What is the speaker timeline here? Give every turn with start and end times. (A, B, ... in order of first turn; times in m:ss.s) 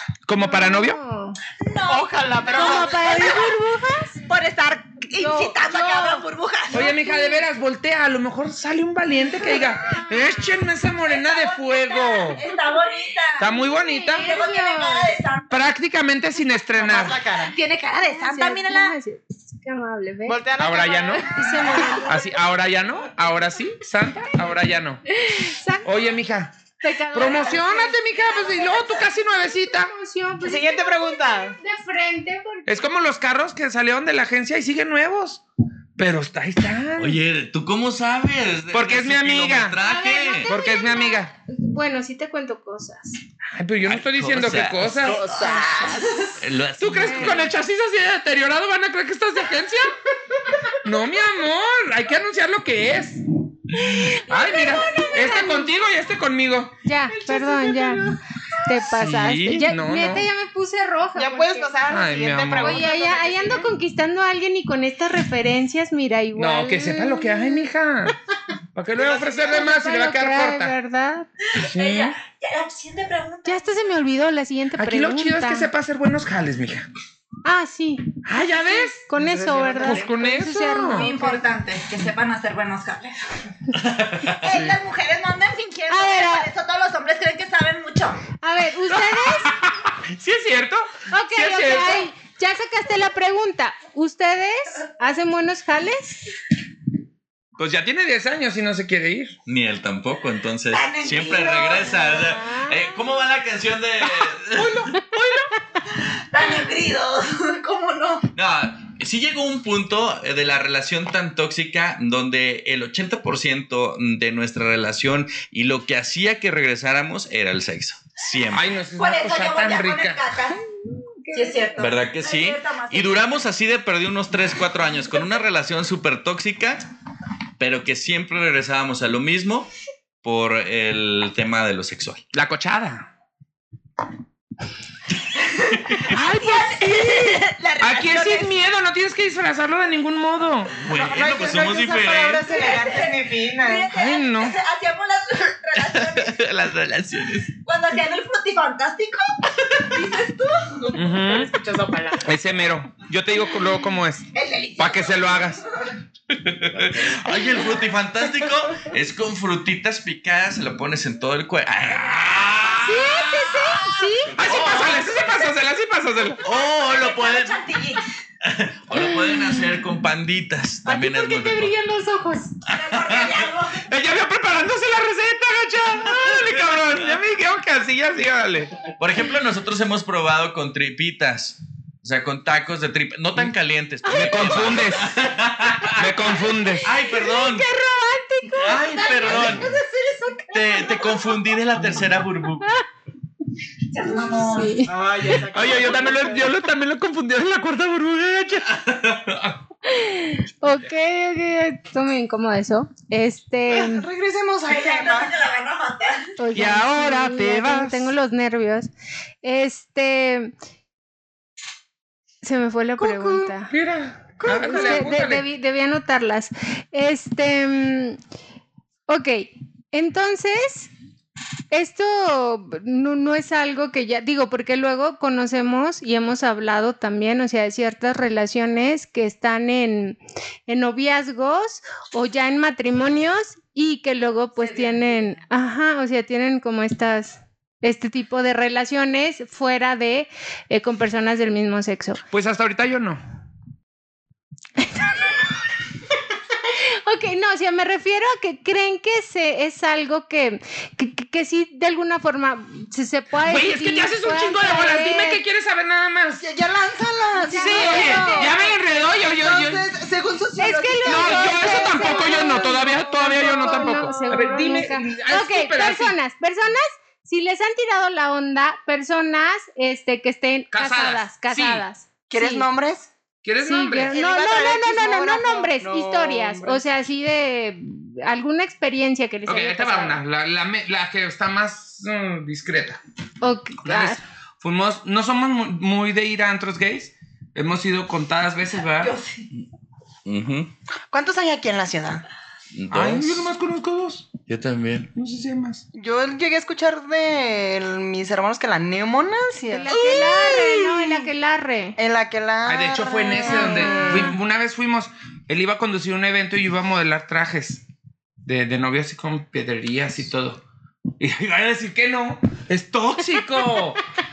0:00.2-0:01.0 A
0:00.4-0:01.4 B
0:01.6-0:03.5 C
0:01.9-0:03.1 D
0:02.5-0:04.2 B
0:04.3-0:06.9 C
0:05.2-0:07.4 B
0:06.7-0:12.4 A
0:09.4-0:10.2 B
0:11.0-0:13.5 C
0:13.4-0:14.3 A
0:13.4-0:15.1 B
0:14.2-0:15.6 C
0:15.5-0:17.2 A
0:16.8-0:17.5 D
0:17.5-0:18.9 C
0:17.9-0:20.4 B
0:20.3-0:22.0 D
0:20.6-0:21.3 A
0:21.3-0:22.3 B
0:22.0-0:25.0 A
0:25.1-0:26.1 B
0:25.8-0:26.6 A
0:26.8-0:32.9 B
0:27.1-0:29.9 A
0:30.4-0:31.6 D
0:32.7-0:35.4 A
0:36.0-0:37.2 A
0:37.0-0:40.5 E
0:38.7-0:39.8 A
0:39.8-0:43.2 B
0:40.5-0:41.3 A
0:43.5-0:45.2 A
0:43.8-0:45.1 E
0:45.0-0:46.3 D
0:45.2-0:46.4 C
0:46.4-0:47.5 E
0:46.8-0:49.9 A
0:47.0-0:47.3 B
0:50.8-0:53.2 A
0:53.8-0:55.7 B
0:54.1-0:56.7 A
0:54.3-0:55.1 C
0:56.8-1:01.7 B
0:57.1-0:58.1 D
0:58.8-1:00.3 A
1:01.1-1:03.7 D
1:01.9-1:02.8 A
1:02.6-1:07.7 B
1:06.4-1:08.2 A
1:08.7-1:10.7 A
1:09.0-1:09.7 D
1:09.4-1:11.3 B
1:11.5-1:13.9 C
1:11.6-1:12.1 A
1:13.4-1:15.7 B
1:14.8-1:16.9 A
1:17.4-1:21.4 B
1:18.2-1:19.1 A
1:19.2-1:20.2 D
1:19.8-1:21.1 A
1:20.9-1:23.2 C
1:23.8-1:24.5 E
1:24.4-1:28.2 C
1:24.5-1:24.8 A
1:25.9-1:26.5 B
1:28.4-1:29.5 B
1:28.9-1:32.1 A
1:31.1-1:36.3 B
1:37.6-1:39.3 A
1:39.4-1:44.9 E
1:40.7-1:42.2 C
1:41.6-1:42.9 B
1:44.6-1:45.5 A
1:45.9-1:48.3 C
1:48.3-1:58.7 E
1:58.5-2:00.2 A
1:59.0-2:00.6 C
2:01.0-2:01.9 B
2:01.3-2:03.3 C
2:01.8-2:06.8 E
2:07.6-2:09.7 E
2:10.2-2:12.2 E
2:12.3-2:13.1 A
2:15.4-2:18.5 C
2:16.0-2:20.8 A
2:20.8-2:22.5 E
2:20.9-2:23.9 D
2:22.5-2:26.4 C
2:23.9-2:24.6 A
2:25.8-2:27.5 E
2:27.6-2:31.0 C
2:30.9-2:32.3 D
2:30.9-2:31.5 A
2:32.2-2:35.6 A
2:34.3-2:35.6 C
2:36.3-2:43.2 E
2:42.8-2:44.3 B
2:44.3-2:45.2 E
2:44.4-2:46.4 A
2:44.5-2:45.0 C
2:46.4-2:47.6 E
2:46.7-2:48.0 C
2:48.4-2:51.7 E
2:50.8-2:52.6 B
2:52.7-2:53.9 C
2:52.9-2:53.3 E
2:53.9-2:58.8 A
2:56.1-2:57.2 E
2:59.0-3:07.7 E
3:04.0-3:04.6 B
3:04.1-3:05.1 A
3:06.0-3:06.8 A
3:07.0-3:10.3 B
3:08.6-3:09.8 E
3:09.3-3:09.7 A
3:10.5-3:12.7 E
3:13.9-3:14.8 C
3:14.4-3:14.9 B
3:14.8-3:16.5 D
3:15.4-3:18.8 A
3:18.7-3:19.5 E
3:19.8-3:24.1 B
3:23.7-3:25.4 D
3:24.6-3:26.3 C
3:26.4-3:28.9 B
3:26.5-3:28.1 A
3:29.4-3:30.5 B
3:32.4-3:33.7 B
3:33.0-3:33.5 D
3:33.7-3:35.4 A
3:34.4-3:35.0 D
3:34.5-3:38.2 B
3:39.1-3:40.9 B
3:41.7-4:02.2 B
3:54.6-3:55.1 C
4:02.3-4:03.2 A
4:04.8-4:05.4 B
4:06.8-4:15.4 B
4:13.4-4:16.4 A
4:16.4-4:22.8 D
4:17.4-4:18.6 B
4:17.5-4:19.9 A
4:20.6-4:32.6 B
4:21.0-4:26.1 A
4:23.5-4:24.8 D
4:30.7-4:31.8 A
4:32.3-4:33.1 D
4:33.4-4:34.1 A
4:33.6-4:40.2 B
4:34.1-4:36.8 D
4:39.5-4:43.0 A
4:43.4-4:44.2 B
4:43.8-4:49.1 A
4:48.9-4:49.5 C
4:50.2-4:50.7 E
4:51.1-4:52.2 D
4:52.7-4:53.5 E
4:52.9-4:54.3 A
4:54.5-4:55.1 E
4:55.1-4:55.8 A
4:55.9-4:59.9 D
4:59.7-5:02.0 B
5:00.2-5:00.4 E
5:02.0-5:04.4 D
5:02.7-5:07.8 A
5:03.5-5:04.3 B
5:08.4-5:10.6 A
5:11.2-5:14.0 A